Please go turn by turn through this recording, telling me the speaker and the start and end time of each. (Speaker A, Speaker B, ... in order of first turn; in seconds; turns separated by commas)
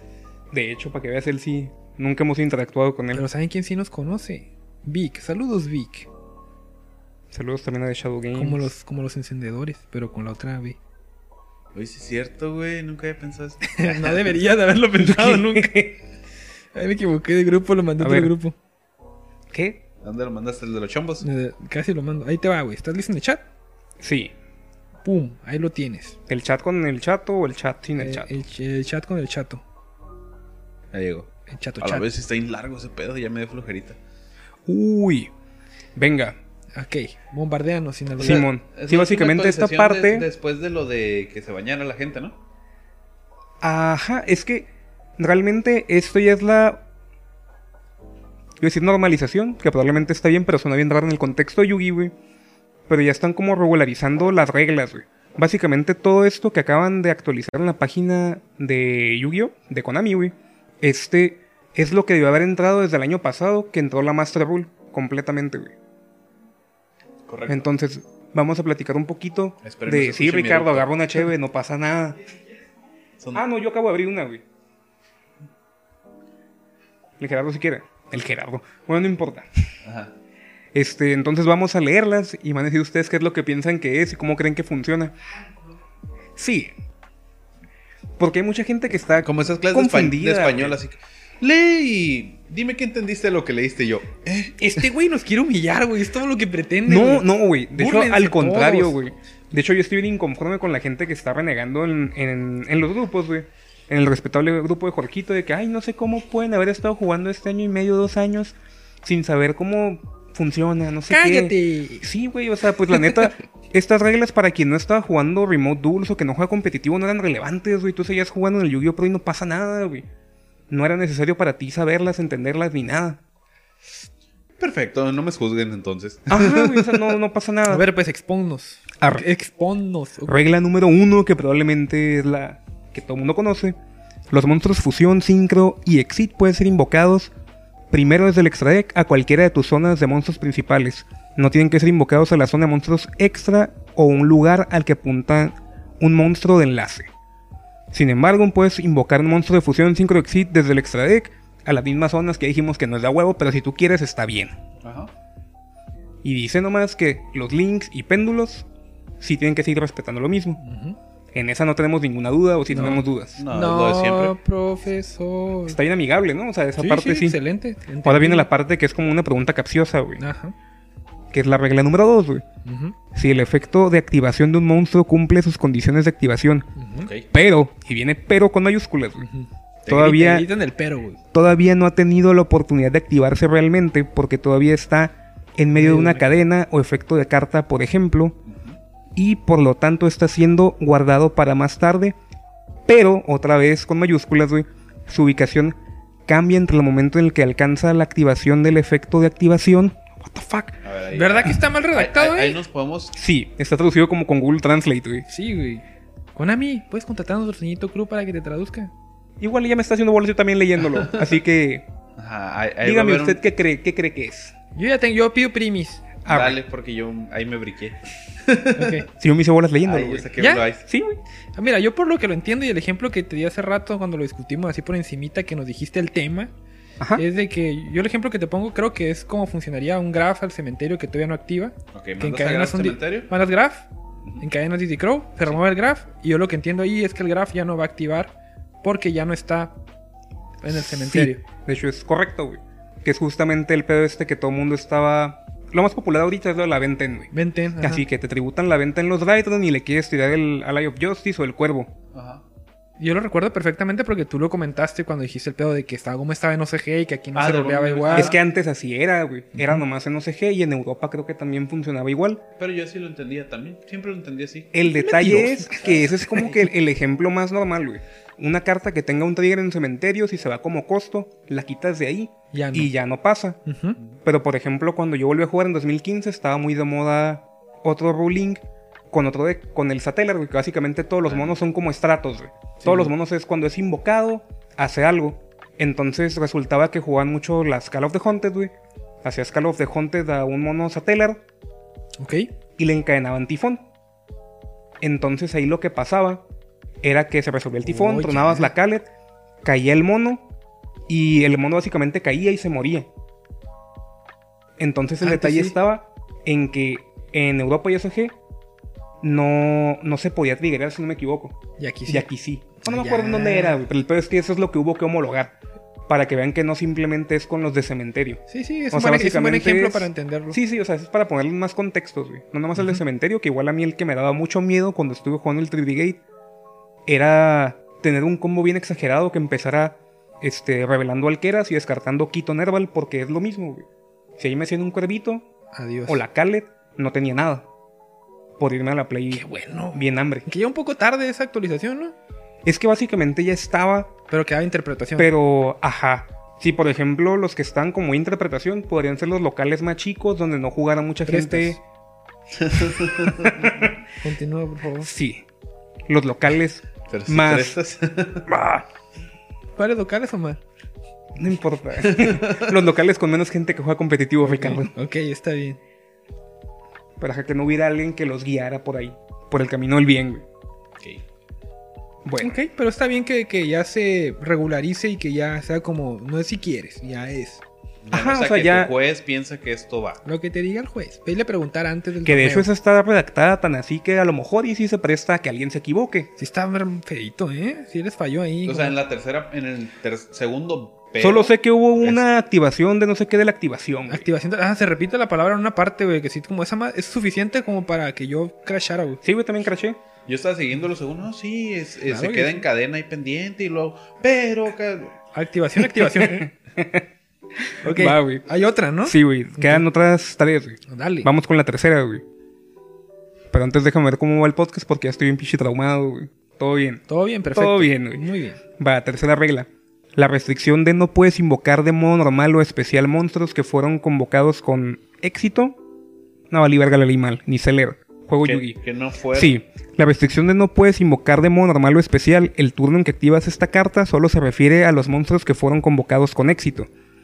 Speaker A: 0.5-3.2, Speaker B: 3.1-6.1, Speaker A: 7.3-8.7, Speaker B: 8.3-10.8, Speaker C: 11.7-14.3, Speaker B: 13.7-15.8, Speaker A: 15.0-16.0, Speaker B: 16.7-18.6, Speaker A: 18.0-18.3, Speaker A: 19.5-19.8, Speaker C: 20.0-21.3, Speaker B: 21.2-23.4, Speaker A: 24.0-24.3, Speaker B: 25.0-26.2, Speaker A: 26.3-28.3, Speaker B: 28.0-29.6, Speaker C: 30.9-31.3, Speaker B: 31.5-32.1, Speaker C: 31.8-34.0, Speaker A: 34.7-35.3, Speaker A: 36.0-36.4, Speaker B: 36.8-38.5, Speaker A: 38.2-40.3, Speaker C: 38.2-42.4, Speaker A: 43.6-46.8, Speaker A: 48.6-52.1, Speaker A: 52.9-65.7, Speaker C: 67.3-67.7, Speaker A: 67.5-72.2, Speaker C: 69.6-71.2, Speaker A: 73.3-74.4, Speaker A: 77.2-79.5, Speaker C: 79.8-80.1, Speaker A: 80.7-85.1, Speaker A: 86.4-86.7, Speaker A: 88.2-90.8, Speaker C: 89.2-94.8, Speaker B: 94.6-99.0, Speaker A: 96.9-120.1, Speaker B: 111.1-112.1, Speaker A: 120.7-123.2, Speaker C: 124.6-127.1, Speaker A: 126.3-127.9, Speaker B: 127.7-130.4, Speaker A: 130.3-133.8, Speaker A: 134.3-137.3, Speaker A: 137.9-147.1, Speaker A: 147.9-154.6, Speaker C: 154.8-155.1, Speaker A: 156.2-158.7, Speaker A: 159.2-160.6, Speaker B: 160.6-161.0, Speaker A: 161.3-163.4, Speaker B: 162.7-165.8, Speaker C: 162.8-164.4, Speaker A: 165.7-167.4, Speaker B: 166.8-168.5, Speaker A: 168.0-170.2, Speaker B: 170.2-170.6, Speaker A: 171.3-172.4, Speaker B: 172.7-173.0, Speaker A: 173.1-176.7, Speaker B: 176.8-177.1, Speaker C: 177.0-177.3, Speaker A: 177.3-179.3, Speaker B: 179.2-181.2, Speaker A: 179.9-180.5, Speaker A: 181.3-188.4, Speaker B: 185.8-186.3, Speaker C: 188.5-188.8, Speaker A: 189.2-192.2, Speaker A: 192.9-195.8, Speaker A: 196.3-200.8, Speaker C: 200.8-203.1, Speaker B: 201.1-202.6, Speaker A: 203.1-205.3, Speaker B: 205.3-205.8, Speaker B: 206.4-208.9, Speaker A: 209.4-211.9, Speaker C: 210.9-211.3, Speaker C: 212.2-213.4, Speaker A: 212.8-214.6, Speaker B: 214.8-216.1, Speaker A: 216.2-216.6, Speaker C: 216.3-219.0, Speaker B: 218.8-219.1, Speaker A: 219.2-220.3, Speaker C: 219.8-220.8, Speaker B: 220.4-220.7, Speaker A: 220.9-221.2, Speaker B: 221.6-226.5, Speaker B: 227.2-233.9, Speaker C: 231.9-233.3, Speaker B: 234.4-239.7, Speaker B: 240.6-241.4, Speaker A: 240.7-251.9, Speaker B: 247.3-248.1, Speaker C: 252.1-252.4, Speaker B: 253.0-258.3, Speaker C: 257.3-258.4, Speaker A: 258.1-262.4, Speaker C: 262.6-264.7, Speaker A: 264.7-273.6, Speaker B: 264.8-266.6, Speaker B: 272.5-272.9, Speaker B: 273.6-274.0, Speaker A: 274.2-291.4, Speaker C: 281.3-281.6, Speaker B: 292.2-292.5, Speaker A: 292.8-293.8, Speaker A: 295.0-296.4, Speaker A: 297.0-299.1, Speaker B: 297.8-298.7, Speaker A: 299.6-300.4, Speaker A: 301.1-303.1, Speaker A: 304.8-308.4, Speaker B: 305.2-305.8, Speaker A: 309.2-315.6, Speaker B: 311.8-312.3, Speaker B: 312.8-313.8, Speaker A: 316.1-326.2, Speaker B: 318.5-320.6, Speaker A: 327.1-333.9, Speaker A: 334.4-335.5, Speaker B: 335.7-336.2, Speaker A: 336.1-337.7, Speaker A: 338.6-340.5, Speaker B: 339.3-342.1, Speaker A: 342.6-344.1, Speaker B: 344.3-345.3, Speaker A: 345.2-351.8, Speaker B: 351.3-351.8, Speaker C: 352.6-353.5, Speaker A: 353.2-354.0, Speaker B: 354.2-355.1, Speaker A: 355.0-355.4, Speaker A: 356.1-357.8, Speaker C: 357.1-358.5, Speaker A: 358.5-358.9, Speaker B: 359.8-360.6, Speaker A: 361.4-364.9, Speaker C: 362.0-362.7, Speaker B: 364.4-365.8, Speaker A: 367.2-370.4, Speaker A: 372.2-372.5, Speaker B: 372.4-377.6, Speaker C: 378.0-380.2, Speaker A: 378.1-378.9, Speaker B: 380.2-382.7, Speaker A: 382.2-386.3, Speaker B: 386.4-388.9, Speaker C: 388.6-392.2, Speaker A: 391.2-394.2, Speaker B: 394.1-399.2, Speaker A: 399.2-400.0, Speaker C: 400.3-405.1, Speaker B: 402.1-402.7, Speaker B: 405.3-406.5, Speaker A: 406.0-408.4, Speaker B: 407.8-409.9, Speaker A: 409.1-412.2, Speaker B: 410.9-411.3, Speaker A: 413.5-418.2, Speaker B: 417.1-418.6, Speaker A: 418.8-425.8, Speaker A: 426.5-428.8, Speaker C: 428.4-429.5, Speaker A: 429.3-436.9